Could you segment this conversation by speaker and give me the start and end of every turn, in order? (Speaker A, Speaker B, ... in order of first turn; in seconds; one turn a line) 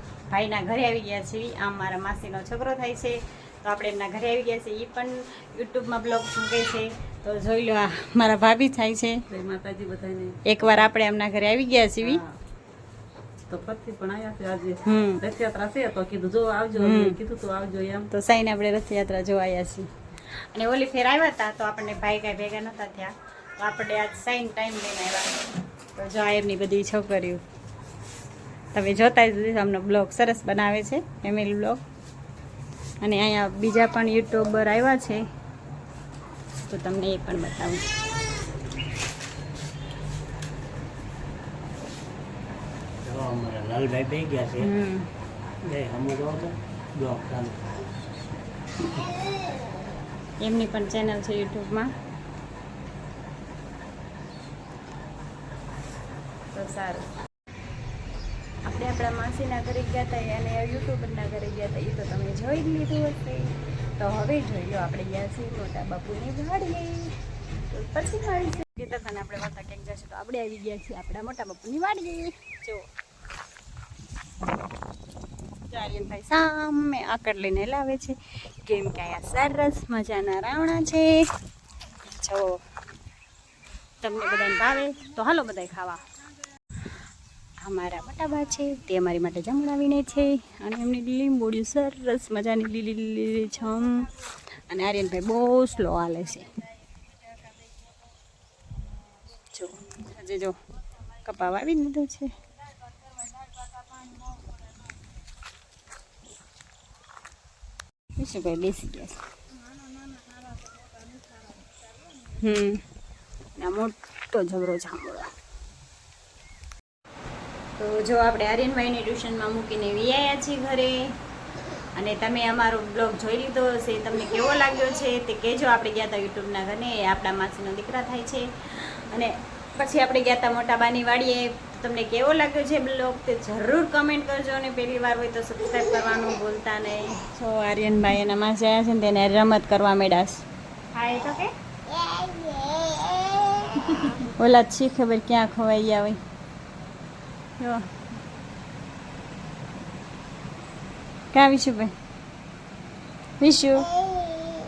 Speaker A: 0.3-9.2
Speaker B: 9.3-10.4
Speaker A: 10.4-12.2
Speaker B: 12.0-12.3
Speaker B: 13.5-18.1
Speaker A: 14.8-15.2
Speaker A: 16.7-17.2
Speaker A: 18.1-25.3
Speaker A: 25.9-27.4
Speaker A: 28.7-31.8
Speaker A: 33.0-35.2
Speaker A: 36.6-37.9
Speaker C: 43.0-44.7
Speaker A: 44.6-45.1
Speaker C: 45.6-47.6
Speaker A: 50.4-51.9
Speaker A: 56.5-57.1
Speaker A: 58.6-67.2
Speaker A: 67.7-72.9
Speaker A: 75.7-81.3
Speaker A: 82.1-82.6
Speaker A: 84.0-86.0
Speaker A: 87.6-96.6
Speaker A: 99.5-102.3
Speaker A: 108.2-109.2
Speaker A: 112.2-112.8
Speaker A: 113.6-115.3
Speaker A: 117.8-121.0
Speaker A: 122.0-141.5
Speaker A: 143.4-146.2
Speaker A: 147.6-147.9
Speaker A: 151.3-151.9
Speaker A: 153.4-153.9